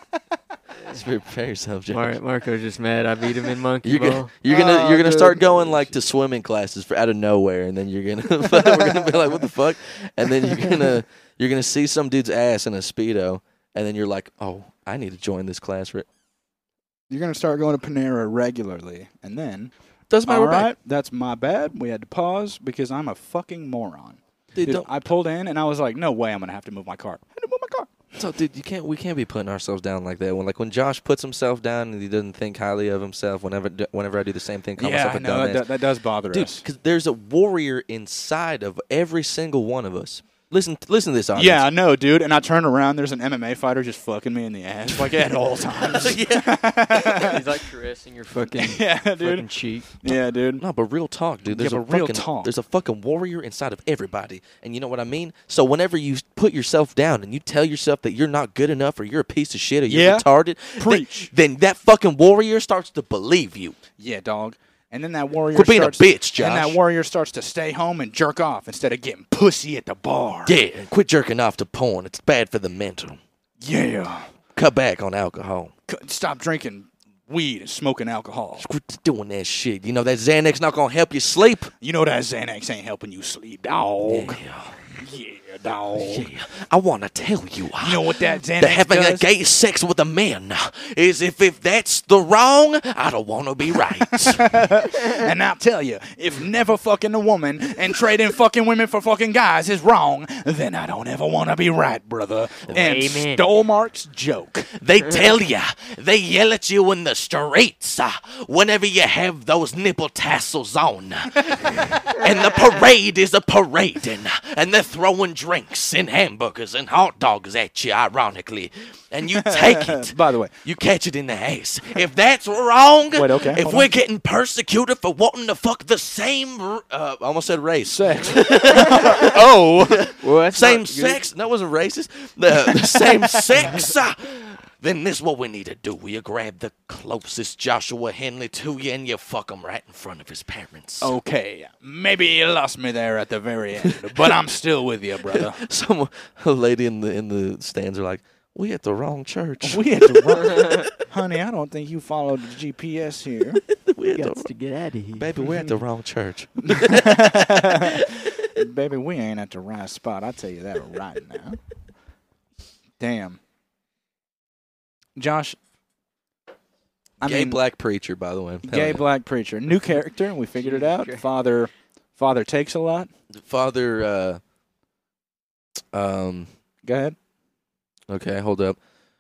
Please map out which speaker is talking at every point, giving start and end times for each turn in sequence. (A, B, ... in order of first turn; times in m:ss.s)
0:00.9-0:02.2 A
0:01.9-0:04.4 B
0:03.8-0:16.1 A
0:04.5-0:05.8 C
0:08.6-0:09.0 C
0:17.1-0:19.7 C
0:20.1-0:20.7 A
0:20.2-0:27.9 C
0:24.5-0:24.9 A
0:28.2-0:35.7 A
0:34.8-0:36.6 C
0:36.3-0:41.6 A
0:41.4-0:47.4 C
0:44.9-0:47.3 A
0:47.0-0:49.9 B
0:48.6-0:50.6 C
0:50.6-1:03.8 A
0:51.5-0:52.5 C
0:59.9-1:01.3 C
1:04.0-1:10.6 C
1:05.5-1:06.8 A
1:10.5-1:13.2 A
1:13.6-1:14.3 C
1:14.6-1:15.7 A
1:15.9-1:18.7 C
1:18.6-1:21.7 A
1:21.8-1:24.4 C
1:24.1-1:24.8 A
1:25.0-1:26.3 C
1:25.9-1:34.8 A
1:27.8-1:29.3 C
1:34.0-1:44.7 C
1:42.7-1:43.2 A
1:42.7-1:43.4 B
1:44.8-2:21.1 A
1:59.3-2:00.6 C
2:03.2-2:03.9 C
2:07.8-2:10.0 C
2:10.2-2:11.2 B
2:12.7-2:13.8 C
2:21.0-2:25.6 C
2:23.8-2:24.4 A
2:25.3-2:30.9 A
2:29.6-2:33.6 C
2:33.7-2:34.5 A
2:34.1-2:35.3 B
2:35.1-2:38.3 A
2:36.6-2:41.6 C
2:43.0-2:43.4 C
2:45.2-2:45.6 C
2:47.2-2:47.6 C
2:47.2-2:49.1 A
2:48.6-2:53.1 C
2:50.6-2:51.2 B
2:53.3-2:54.4 A
2:55.9-2:56.5 A
2:56.8-2:57.2 C
2:58.1-2:58.8 A